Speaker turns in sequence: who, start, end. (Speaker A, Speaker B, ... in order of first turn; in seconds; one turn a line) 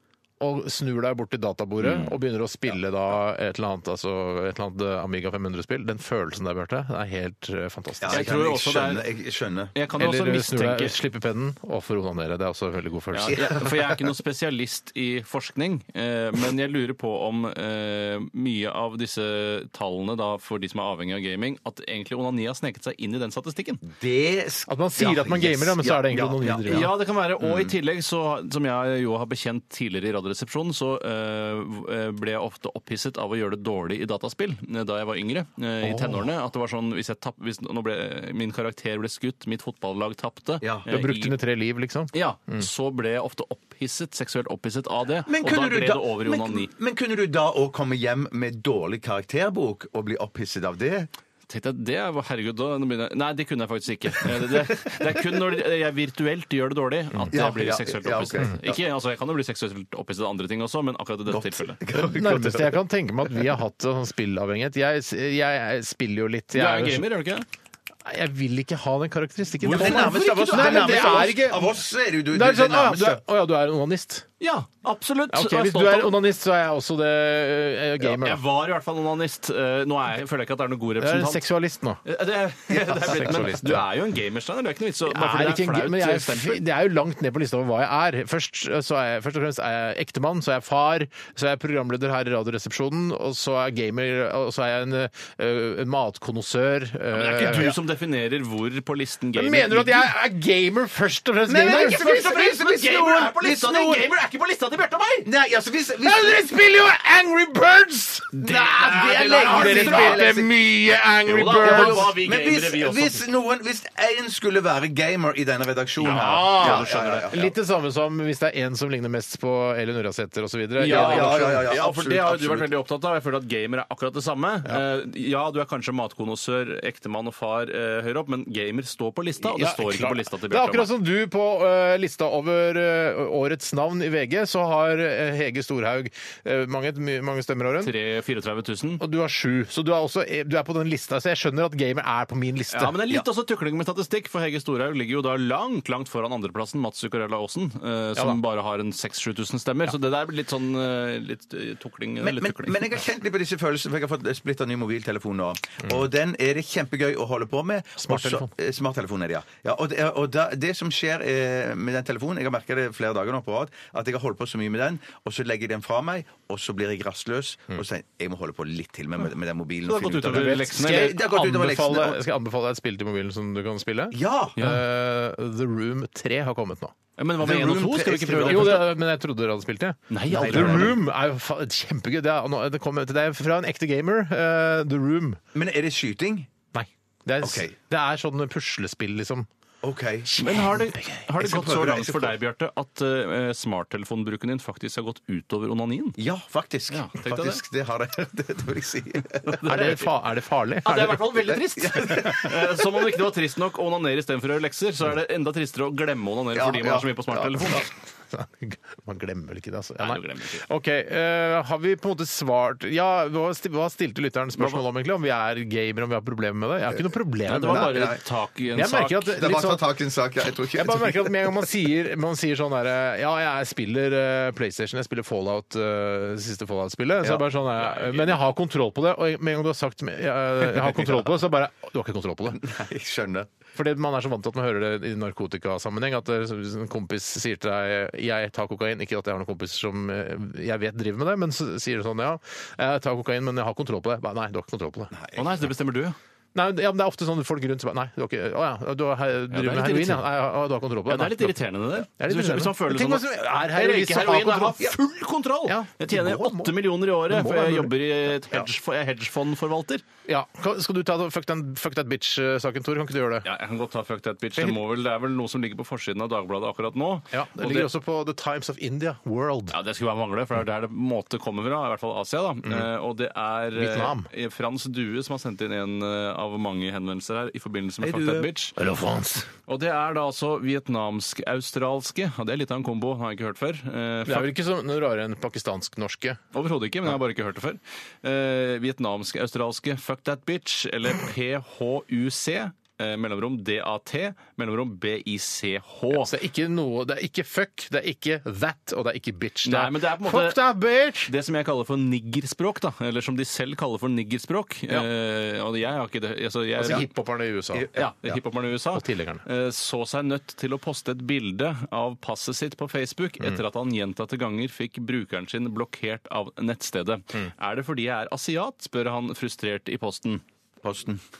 Speaker A: 0.4-8.3
Speaker B: 1.8-2.1
Speaker B: 8.0-9.7
Speaker C: 8.1-9.0
Speaker C: 9.7-10.9
Speaker A: 9.9-13.4
Speaker C: 13.1-23.8
Speaker B: 13.3-13.9
Speaker B: 23.8-26.9
Speaker A: 24.7-26.9
Speaker C: 26.7-41.3
Speaker B: 27.4-27.7
Speaker A: 35.8-36.2
Speaker B: 40.6-40.9
Speaker A: 40.9-42.6
Speaker C: 42.1-46.7
Speaker B: 45.3-51.1
Speaker C: 51.5-61.8
Speaker B: 57.3-58.8
Speaker B: 61.3-62.8
Speaker A: 61.9-67.0
Speaker C: 66.5-67.5
Speaker A: 68.0-71.8
Speaker C: 69.6-71.3
Speaker B: 69.7-73.2
Speaker A: 72.3-74.3
Speaker C: 74.4-76.2
Speaker A: 75.3-78.4
Speaker C: 78.0-81.4
Speaker A: 81.0-82.0
Speaker C: 82.0-86.6
Speaker A: 82.9-83.8
Speaker B: 82.9-83.3
Speaker A: 85.0-97.8
Speaker C: 97.1-100.1
Speaker A: 99.3-102.0
Speaker B: 101.5-104.1
Speaker C: 101.6-105.3
Speaker B: 105.2-106.4
Speaker A: 106.0-112.1
Speaker B: 108.4-110.5
Speaker C: 109.0-110.2
Speaker C: 111.3-113.2
Speaker B: 111.5-117.5
Speaker C: 116.0-117.3
Speaker A: 116.0-121.8
Speaker C: 120.8-130.9
Speaker B: 120.8-122.7
Speaker A: 129.4-137.9
Speaker C: 137.8-139.0
Speaker A: 139.0-143.0
Speaker C: 142.7-152.8
Speaker B: 152.2-172.2
Speaker A: 158.0-158.5
Speaker C: 169.9-171.2
Speaker A: 170.3-176.9
Speaker B: 174.1-174.6
Speaker C: 177.2-178.8
Speaker B: 177.4-178.9
Speaker A: 178.4-185.4
Speaker C: 180.1-180.9
Speaker B: 180.3-181.0
Speaker B: 185.5-186.5
Speaker A: 186.7-189.5
Speaker B: 187.4-187.7
Speaker B: 189.8-190.5
Speaker A: 190.3-191.2
Speaker C: 190.4-196.2
Speaker B: 191.4-192.4
Speaker B: 196.2-199.6
Speaker C: 196.9-197.6
Speaker C: 199.4-200.1
Speaker A: 199.6-201.3
Speaker C: 200.8-207.9
Speaker B: 201.5-202.9
Speaker B: 206.5-207.8
Speaker A: 208.3-218.1
Speaker C: 210.0-210.6
Speaker C: 214.6-214.8
Speaker C: 217.5-219.4
Speaker B: 217.6-218.2
Speaker A: 218.7-219.8
Speaker B: 219.4-221.7
Speaker A: 220.7-232.6
Speaker C: 227.8-228.3
Speaker B: 232.5-233.5
Speaker A: 233.8-245.1
Speaker B: 245.1-245.4
Speaker C: 245.3-246.2
Speaker A: 246.5-254.9
Speaker C: 249.5-250.2
Speaker C: 251.1-260.0
Speaker A: 255.7-257.9
Speaker A: 260.2-263.5
Speaker C: 263.4-267.9
Speaker A: 267.3-269.8
Speaker C: 269.7-278.7
Speaker A: 273.7-274.3
Speaker B: 278.0-278.4
Speaker A: 278.8-279.5
Speaker C: 279.7-284.5
Speaker A: 284.2-286.4
Speaker C: 286.5-296.3
Speaker A: 296.1-301.3
Speaker C: 299.6-300.6
Speaker C: 301.2-307.0
Speaker A: 306.8-307.9
Speaker B: 307.7-308.3
Speaker C: 307.9-320.4
Speaker A: 308.9-309.4
Speaker B: 320.8-321.2